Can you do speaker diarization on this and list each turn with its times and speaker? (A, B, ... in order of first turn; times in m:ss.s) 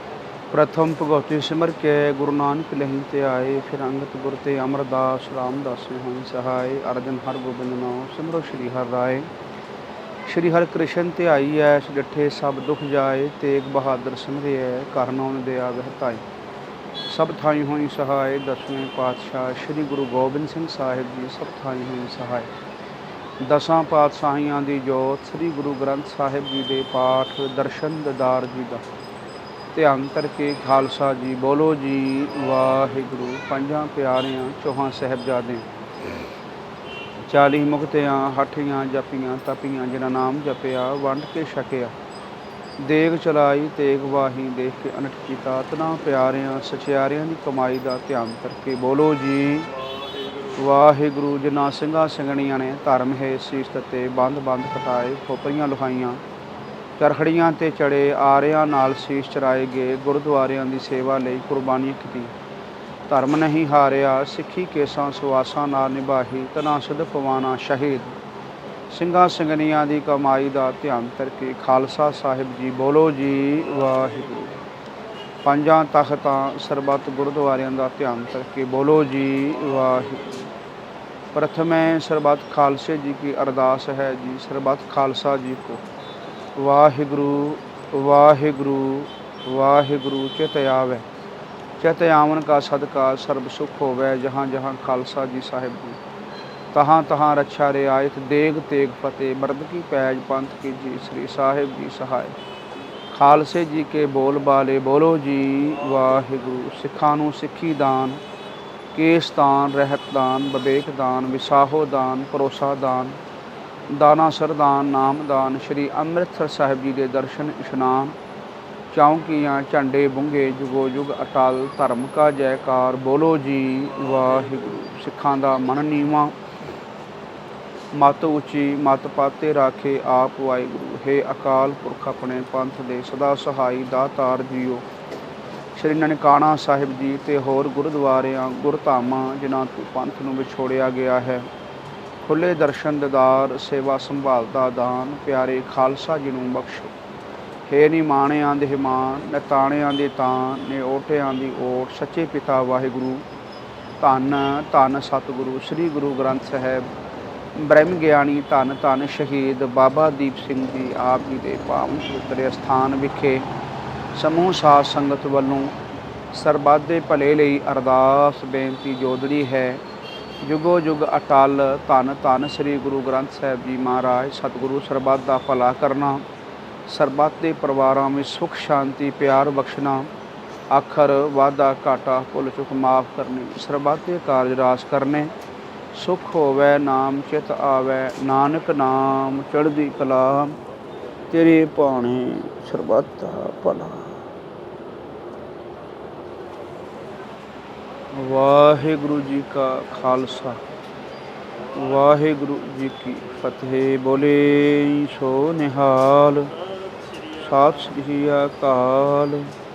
0:00.5-0:09.3 A
0:10.2-0:16.2 A
0:17.1-0:22.5 A
0:23.4-0:28.8 A
0:29.7-0:35.7 A
0:37.3-0:41.9 A
0:42.8-0:49.7 A
0:50.5-0:56.2 A
0:57.0-1:02.3 A
1:03.1-1:08.2 A
1:08.9-1:14.6 A
1:15.4-1:20.5 A
1:21.3-1:25.8 A
1:26.6-1:31.1 A
1:31.8-1:36.0 A
1:36.7-1:42.4 A
1:43.1-1:48.2 A
1:48.9-1:53.2 A
1:53.9-1:58.2 A
1:58.9-2:06.4 A
2:07.9-2:14.8 A
2:15.8-2:21.5 A
2:22.2-2:26.9 A
2:27.7-2:33.2 A
2:34.0-2:36.8 A
2:37.5-2:43.5 A
2:44.1-2:45.8 A
2:46.3-2:49.8 A
2:50.4-2:56.2 A
2:56.9-3:00.1 A
3:00.7-3:05.3 A
3:05.9-3:10.6 A
3:11.3-3:14.2 A
3:18.1-3:20.6 A
3:21.7-3:26.5 A
3:27.4-3:29.5 A